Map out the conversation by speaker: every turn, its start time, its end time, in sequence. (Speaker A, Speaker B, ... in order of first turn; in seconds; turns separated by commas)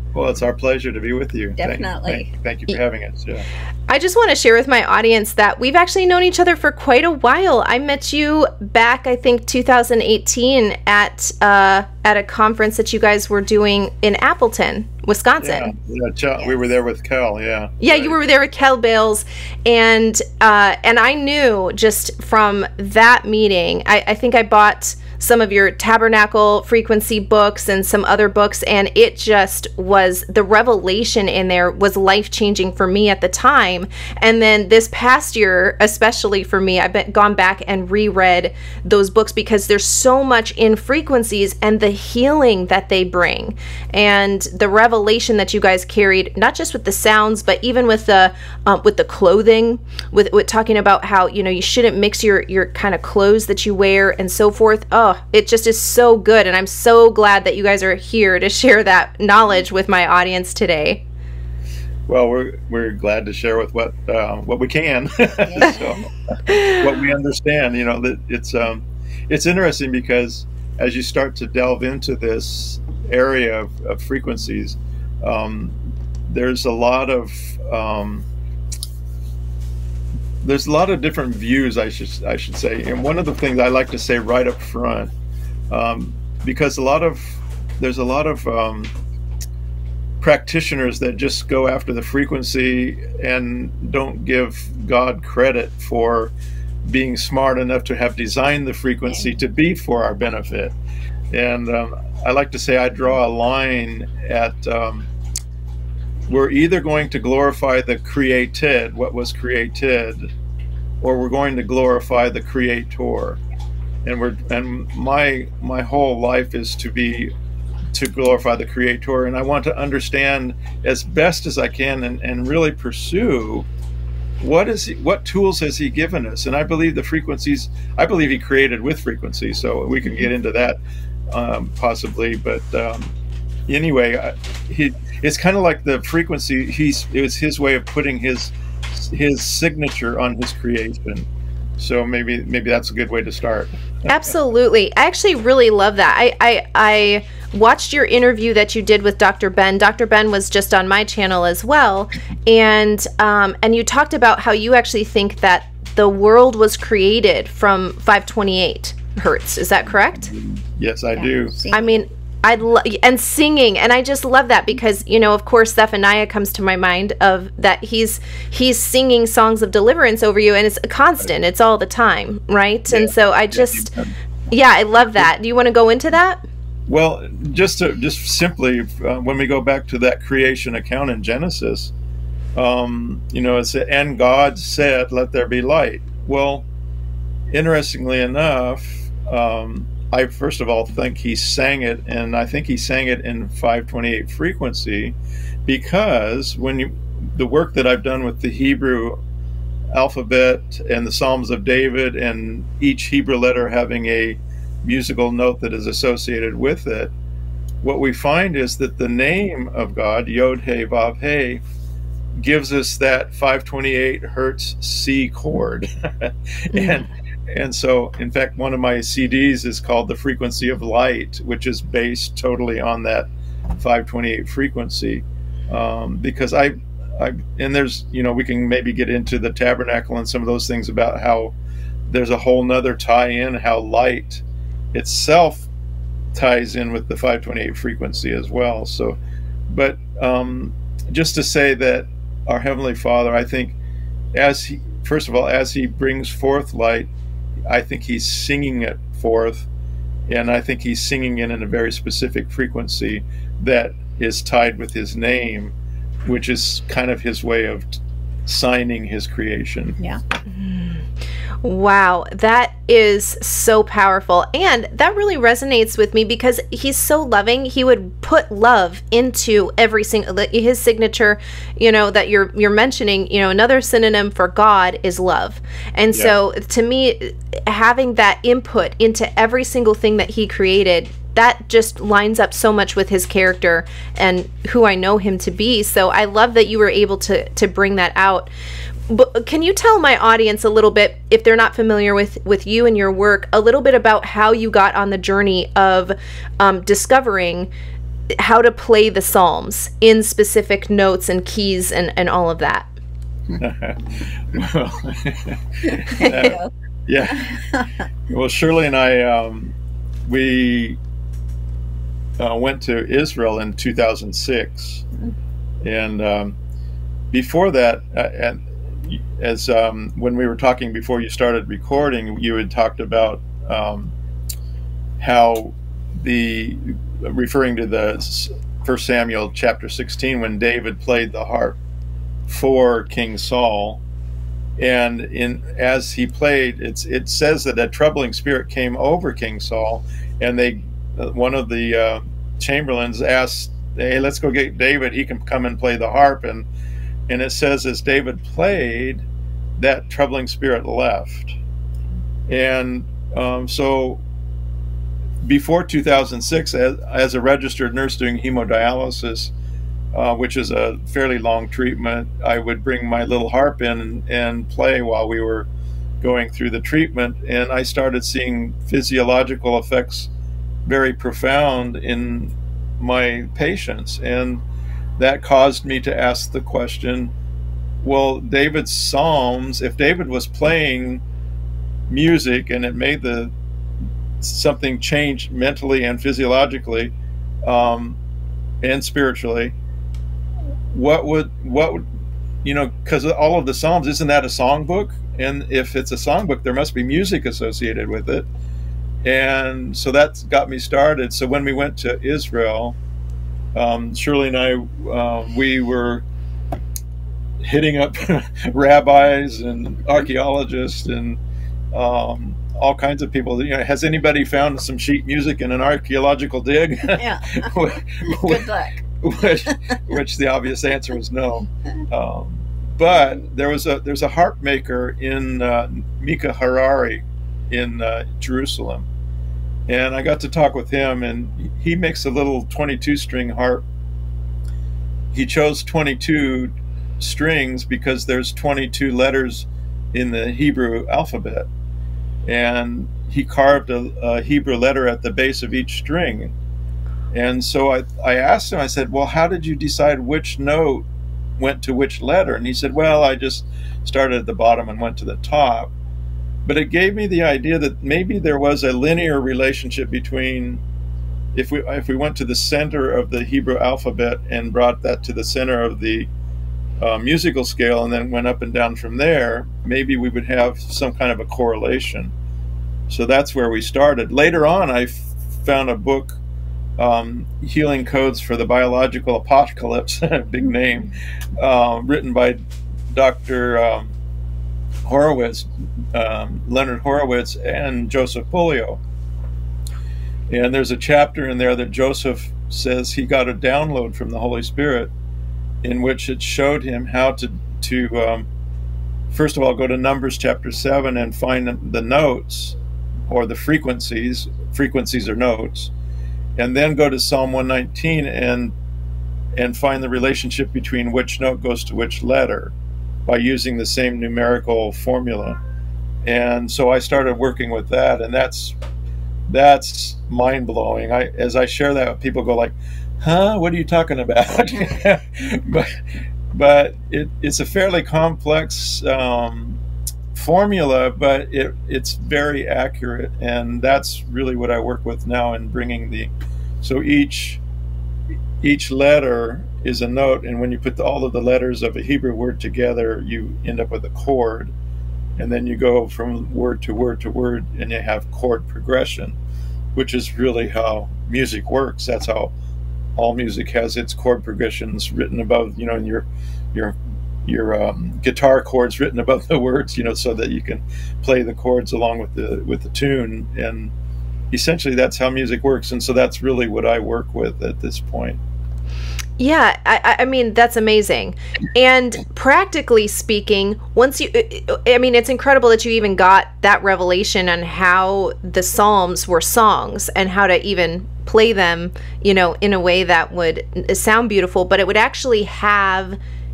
Speaker A: 0.1-3.5, Speaker B: 1.6-2.3, Speaker C: 3.9-15.7, Speaker A: 15.4-18.2, Speaker C: 17.8-61.0, Speaker A: 62.1-78.3, Speaker B: 65.5-66.0, Speaker C: 66.5-66.8, Speaker A: 80.4-85.1, Speaker A: 85.7-88.9, Speaker A: 90.2-96.3, Speaker A: 96.8-100.7, Speaker A: 101.3-105.1, Speaker A: 106.3-110.3, Speaker A: 111.0-113.4, Speaker A: 114.0-117.3, Speaker A: 117.9-123.7, Speaker A: 124.4-130.8, Speaker A: 131.3-133.1, Speaker A: 133.7-141.3, Speaker A: 141.8-143.7, Speaker C: 144.1-160.3, Speaker A: 160.2-161.6, Speaker B: 161.2-162.0, Speaker C: 161.7-173.9, Speaker A: 172.9-174.1, Speaker C: 174.5-176.4, Speaker A: 176.9-181.9, Speaker A: 182.5-186.7, Speaker A: 187.5-199.2, Speaker A: 199.9-207.1, Speaker A: 207.8-211.6, Speaker A: 212.3-223.3, Speaker C: 216.7-217.0, Speaker A: 223.8-231.5, Speaker A: 232.1-235.7, Speaker A: 236.3-239.2, Speaker A: 239.7-243.8, Speaker A: 244.3-247.1, Speaker A: 247.7-249.7, Speaker A: 250.3-255.7, Speaker A: 256.2-260.0, Speaker C: 260.6-261.0, Speaker C: 261.6-288.5, Speaker C: 289.1-297.7, Speaker C: 298.4-302.9, Speaker A: 303.6-307.6, Speaker B: 305.9-306.7, Speaker B: 307.3-307.9, Speaker A: 308.3-311.0, Speaker A: 312.4-315.0, Speaker A: 315.8-316.6, Speaker A: 317.3-324.1, Speaker A: 325.2-331.8, Speaker A: 332.5-334.0, Speaker A: 334.8-346.7, Speaker A: 347.3-349.2, Speaker A: 349.8-351.6, Speaker A: 352.5-354.2, Speaker A: 355.4-359.5, Speaker A: 360.1-365.7, Speaker A: 366.2-370.3, Speaker A: 370.8-374.6, Speaker A: 375.2-377.3, Speaker A: 378.0-381.2, Speaker A: 382.1-383.5, Speaker A: 384.4-387.1, Speaker A: 387.6-388.2, Speaker A: 388.8-389.8, Speaker A: 390.9-392.0, Speaker A: 392.6-398.5, Speaker A: 399.2-403.0, Speaker A: 403.7-406.2, Speaker A: 407.6-411.4, Speaker A: 411.9-418.7, Speaker B: 417.2-417.7, Speaker B: 418.2-419.0, Speaker A: 419.2-429.1, Speaker A: 429.9-433.8, Speaker A: 435.3-441.7, Speaker A: 442.4-446.5, Speaker A: 447.3-451.1, Speaker A: 451.6-455.9, Speaker A: 456.6-460.8, Speaker A: 461.5-466.3, Speaker A: 467.0-472.3, Speaker A: 473.1-476.4, Speaker A: 477.0-482.6, Speaker A: 483.1-484.1, Speaker A: 485.0-489.0, Speaker A: 490.5-495.1, Speaker A: 495.8-498.5, Speaker A: 499.3-502.8, Speaker A: 503.3-505.9, Speaker A: 506.6-508.7, Speaker A: 509.6-512.7, Speaker A: 513.2-515.6, Speaker A: 516.2-518.8, Speaker A: 519.5-526.0, Speaker A: 526.5-529.8, Speaker A: 530.3-536.3, Speaker A: 536.8-537.6, Speaker A: 538.6-544.7, Speaker A: 545.4-549.4, Speaker A: 549.9-552.5, Speaker A: 553.1-563.9, Speaker A: 564.5-568.4, Speaker C: 569.4-586.2